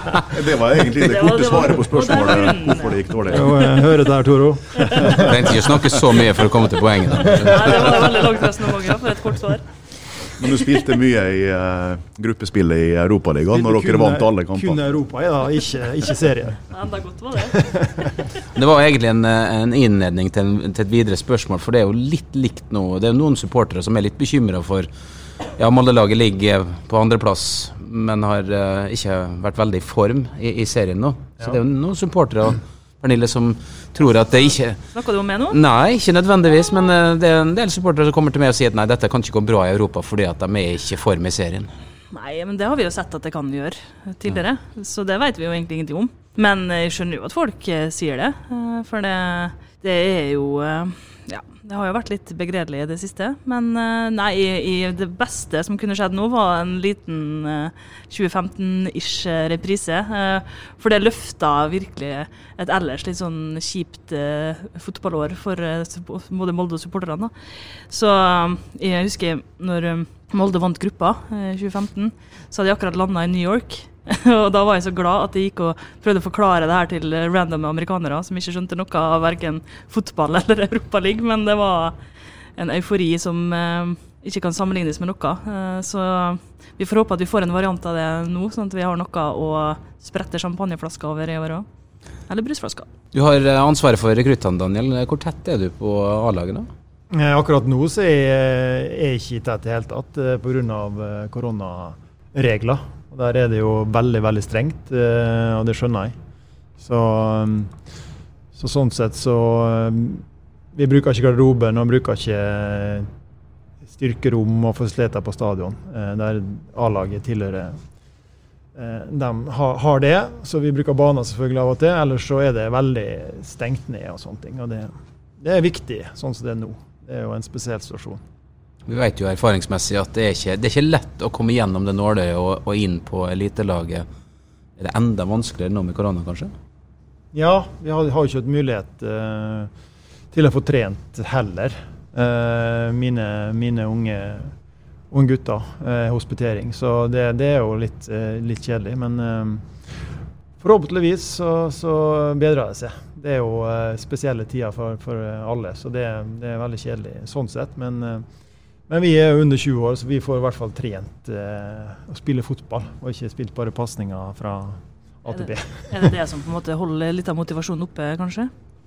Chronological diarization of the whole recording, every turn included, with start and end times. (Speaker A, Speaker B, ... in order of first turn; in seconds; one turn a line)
Speaker A: 0.3-3.6
Speaker B: 0.9-3.4
Speaker C: 3.3-5.5
Speaker D: 5.1-7.9
Speaker C: 7.3-7.6
Speaker B: 7.4-9.7
Speaker A: 10.4-14.8
Speaker C: 13.5-16.6
Speaker B: 16.7-17.6
Speaker C: 17.4-18.1
Speaker D: 18.5-24.9
Speaker D: 25.5-34.8
Speaker B: 34.9-35.6
Speaker D: 35.5-41.7
Speaker B: 42.1-82.0
Speaker B: 82.5-91.7
Speaker B: 92.3-92.9
Speaker D: 93.1-96.7
Speaker C: 97.1-106.1
Speaker C: 106.8-107.7
Speaker C: 108.5-113.1
Speaker C: 113.9-117.8
Speaker C: 118.8-128.2
Speaker D: 128.9-134.1
Speaker D: 134.8-136.5
Speaker C: 137.3-139.7
Speaker C: 140.3-144.5
Speaker C: 145.1-149.7
Speaker C: 150.6-158.2
Speaker C: 158.9-166.1
Speaker B: 165.9-168.5